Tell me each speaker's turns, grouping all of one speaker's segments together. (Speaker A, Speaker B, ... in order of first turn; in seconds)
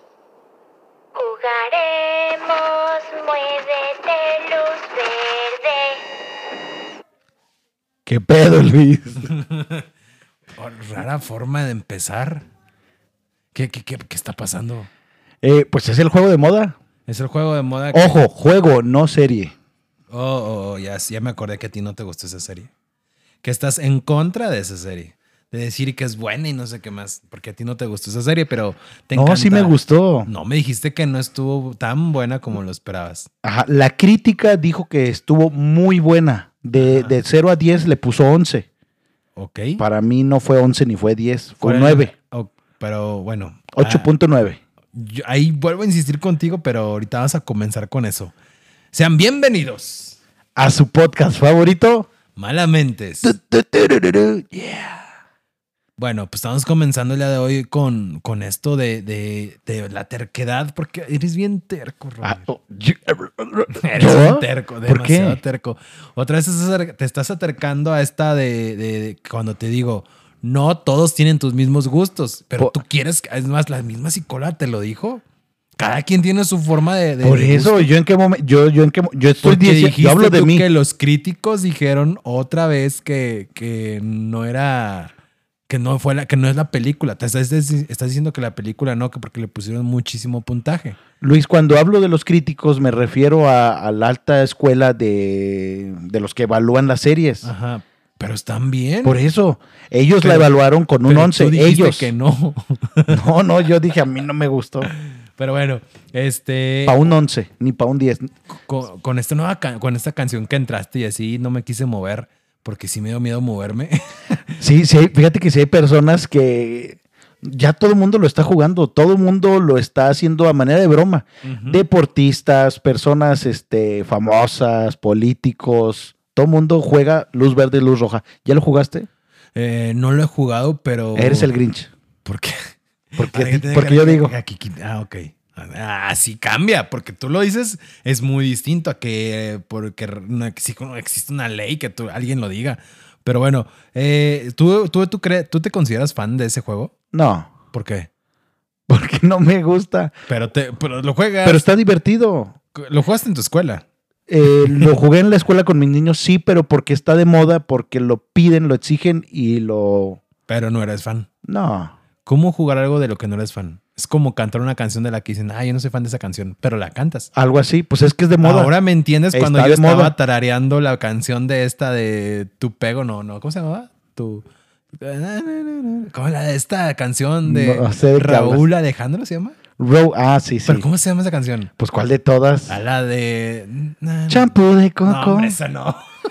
Speaker A: 1.1-6.0
Speaker B: 8.1-9.3, 15.4-16.8, 17.9-19.5, 29.1-30.3, 33.4-38.7, 39.8-42.1, 43.7-44.6, 50.5-52.1, 53.2-55.1, 62.2-65.4, 77.2-80.7, 91.2-97.5, 99.0-102.1, 103.1-104.9, 106.8-108.3, 114.6-129.1, 131.1-131.9, 133.2-134.3, 147.1-147.5, 148.9-150.1, 151.4-152.5, 154.3-160.2, 161.4-161.9, 167.3-168.7, 169.3-170.1, 177.5-178.6, 179.8-180.8, 181.8-182.8, 184.3-185.6
Speaker C: 9.3-9.8, 10.6-12.4, 13.5-14.9, 17.1-18.2, 20.1-22.7, 23.4-33.3, 36.8-37.2, 39.4-39.8, 41.6-44.1, 44.9-48.3, 48.9-50.2, 52.4-53.3, 56.0-62.5, 63.7-75.2, 75.8-77.9, 79.4-85.1, 85.7-91.0, 97.4-99.2, 100.2-100.5, 101.0-103.2, 104.8-107.1, 108.5-114.6, 121.4-121.8, 129.5-131.5, 132.2-146.9, 147.7-148.1, 150.3-151.7, 152.8-153.8, 154.7-154.9, 160.5-161.3, 162.2-167.3, 168.4-179.6, 180.7-181.7, 182.7-184.5, 185.0-186.0